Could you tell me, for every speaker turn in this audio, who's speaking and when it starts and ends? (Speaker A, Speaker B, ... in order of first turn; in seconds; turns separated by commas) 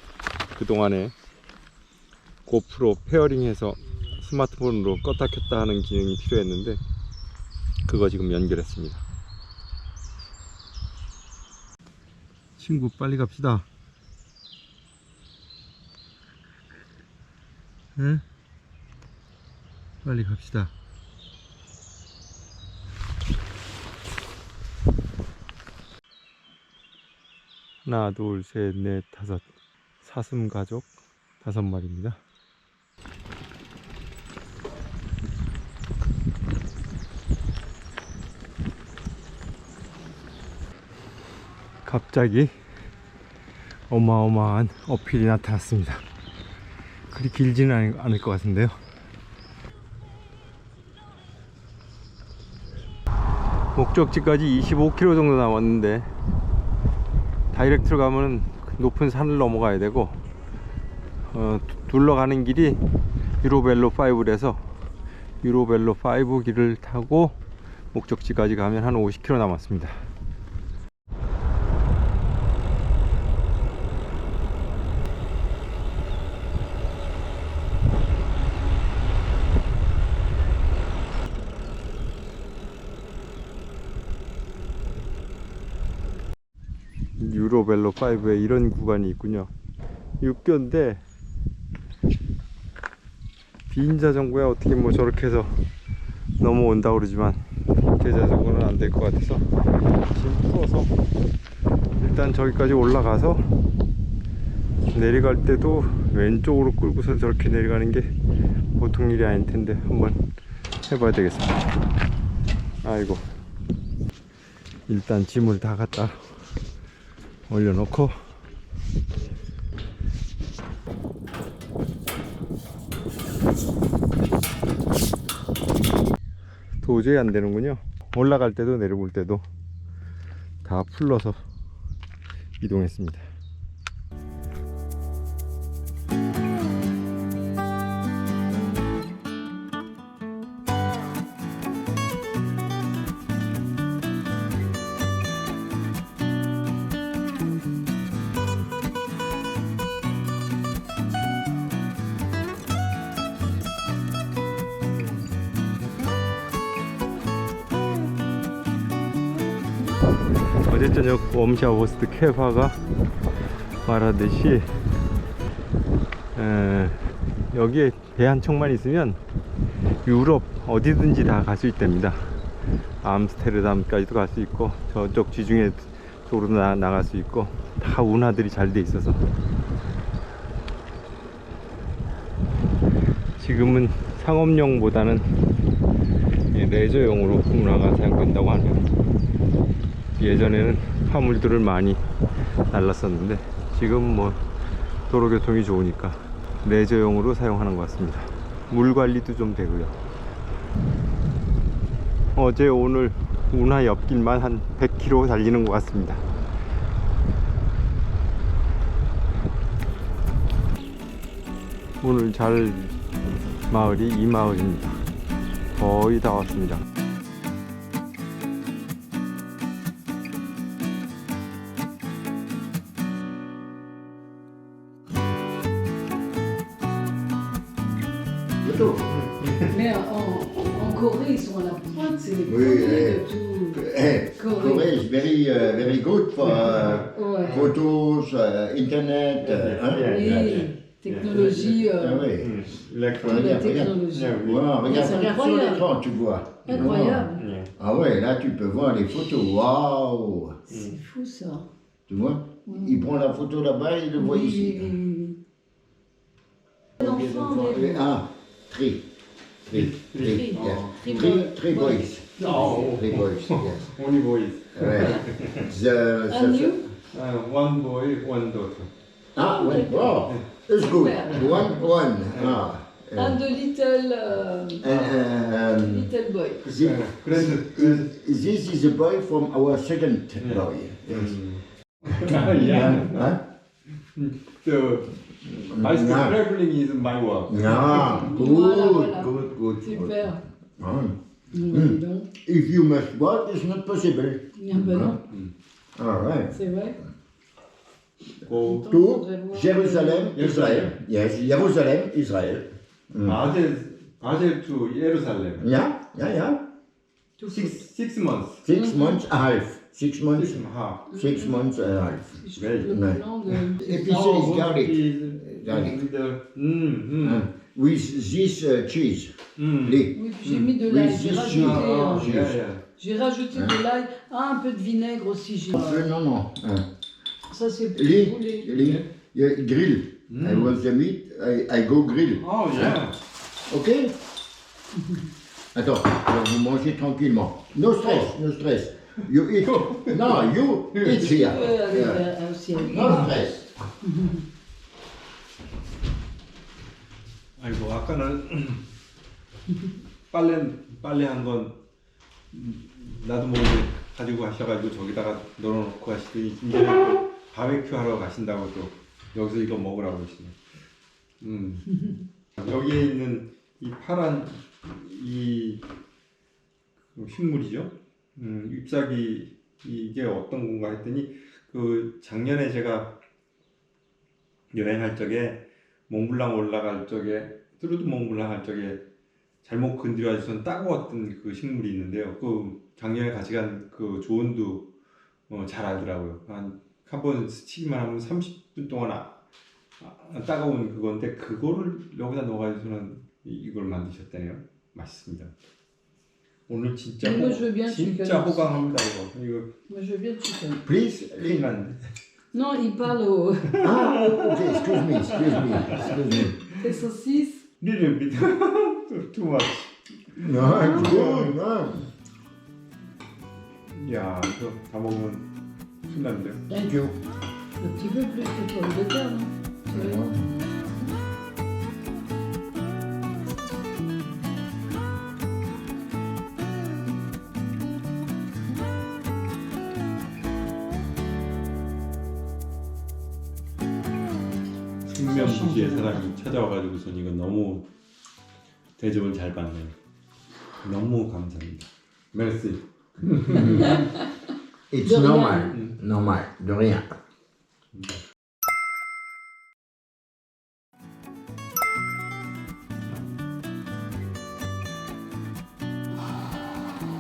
Speaker A: 0.6-1.1, Speaker A: 2.5-6.8, Speaker A: 7.9-9.0, Speaker A: 12.6-13.7, Speaker A: 18.0-18.2, Speaker A: 20.0-20.7, Speaker A: 27.9-29.4, Speaker A: 30.0-30.9, Speaker A: 31.4-32.2, Speaker A: 41.9-42.5, Speaker A: 43.9-46.0, Speaker A: 47.1-48.8, Speaker A: 53.8-56.1, Speaker A: 57.5-60.2, Speaker A: 61.3-62.8, Speaker A: 63.4-64.6, Speaker A: 65.4-67.4, Speaker A: 67.9-70.0, Speaker A: 87.2-89.5, Speaker A: 90.2-91.0, Speaker A: 93.7-95.7, Speaker A: 96.4-99.5, Speaker A: 100.0-100.9, Speaker A: 102.0-103.5, Speaker A: 104.9-108.1, Speaker A: 108.8-110.2, Speaker A: 110.8-111.7, Speaker A: 112.8-113.2, Speaker A: 114.9-116.2, Speaker A: 117.5-118.2, Speaker A: 126.8-129.4, Speaker A: 130.6-131.4, Speaker A: 132.6-133.3, Speaker A: 160.7-162.8, Speaker A: 163.8-164.7, Speaker A: 166.3-169.2, Speaker A: 170.0-172.4, Speaker A: 173.0-179.3, Speaker A: 183.4-185.3, Speaker A: 186.5-188.9, Speaker A: 190.2-192.0, Speaker A: 192.7-194.4, Speaker A: 195.1-199.9, Speaker A: 202.3-206.2, Speaker A: 212.0-212.9, Speaker A: 213.7-215.1, Speaker A: 215.8-216.8, Speaker B: 228.6-229.0, Speaker A: 228.9-229.7, Speaker C: 229.7-234.9, Speaker B: 232.4-240.7, Speaker A: 235.9-237.8, Speaker C: 237.1-237.7, Speaker A: 239.4-244.8, Speaker C: 240.0-242.3, Speaker B: 241.4-242.6, Speaker B: 243.2-250.6, Speaker C: 243.2-245.9, Speaker C: 246.7-247.5, Speaker A: 246.7-247.7, Speaker A: 250.7-251.0, Speaker C: 250.7-251.7, Speaker B: 252.1-255.0, Speaker C: 252.7-253.1, Speaker C: 254.2-255.4, Speaker A: 257.0-257.7, Speaker C: 257.0-258.1, Speaker B: 257.1-259.1, Speaker A: 259.7-261.0, Speaker B: 259.7-263.9, Speaker C: 260.2-263.0, Speaker A: 262.4-265.7, Speaker B: 264.7-266.8, Speaker C: 266.3-266.9, Speaker A: 267.1-268.9, Speaker B: 269.4-273.4, Speaker C: 269.4-271.7, Speaker A: 271.3-272.6, Speaker C: 273.1-276.7, Speaker B: 274.8-276.1, Speaker A: 274.9-275.1, Speaker A: 276.6-278.2, Speaker B: 276.6-281.4, Speaker A: 280.4-283.4, Speaker B: 282.6-283.4, Speaker A: 284.1-288.3, Speaker B: 285.7-286.4, Speaker B: 287.5-291.2, Speaker C: 287.7-290.4, Speaker C: 291.5-292.3, Speaker B: 291.7-295.2, Speaker C: 294.5-295.2, Speaker B: 296.0-296.6, Speaker C: 296.5-297.0, Speaker A: 298.4-298.9, Speaker C: 298.5-300.4, Speaker B: 298.7-303.4, Speaker A: 300.3-301.8, Speaker A: 303.2-305.7, Speaker B: 305.6-306.6, Speaker C: 307.4-307.9, Speaker A: 307.5-308.6, Speaker B: 308.6-313.2, Speaker C: 308.7-309.2, Speaker A: 310.3-311.1, Speaker C: 311.1-311.7, Speaker C: 312.4-314.2, Speaker A: 312.6-317.5, Speaker B: 313.8-316.0, Speaker B: 317.2-320.1, Speaker A: 319.6-322.8, Speaker C: 320.1-326.1, Speaker B: 320.8-322.6, Speaker B: 323.5-323.8, Speaker B: 325.8-326.9, Speaker C: 327.5-328.7, Speaker B: 327.9-333.0, Speaker A: 328.7-329.1, Speaker A: 330.3-330.8, Speaker A: 332.4-333.2, Speaker B: 333.7-334.1, Speaker C: 334.9-335.3, Speaker B: 335.8-343.7, Speaker A: 338.0-338.3, Speaker A: 339.6-341.4, Speaker C: 341.2-344.5, Speaker A: 343.0-343.3, Speaker A: 347.6-348.8, Speaker A: 350.3-351.8, Speaker A: 352.5-360.6, Speaker A: 361.4-361.9, Speaker A: 362.6-365.8, Speaker A: 367.1-373.1, Speaker A: 374.7-379.0, Speaker A: 379.6-384.9, Speaker A: 385.5-389.4, Speaker A: 390.0-395.5, Speaker A: 396.7-399.7, Speaker C: 397.2-398.9, Speaker C: 399.9-400.9, Speaker B: 400.9-401.6, Speaker A: 401.4-402.0, Speaker C: 402.5-404.8, Speaker A: 403.7-406.5, Speaker B: 403.8-406.6, Speaker C: 405.6-406.1, Speaker C: 406.7-407.7, Speaker A: 407.8-411.6, Speaker B: 410.4-412.1, Speaker C: 410.6-411.2, Speaker A: 413.9-415.5, Speaker A: 416.1-416.6, Speaker B: 416.7-417.2, Speaker C: 417.8-420.2, Speaker B: 419.9-420.5, Speaker A: 435.1-437.9, Speaker C: 435.3-436.2, Speaker A: 439.0-439.9, Speaker A: 440.8-444.1, Speaker B: 443.5-444.0, Speaker C: 443.7-444.3, Speaker B: 444.9-447.1, Speaker C: 445.0-445.8, Speaker A: 445.7-446.0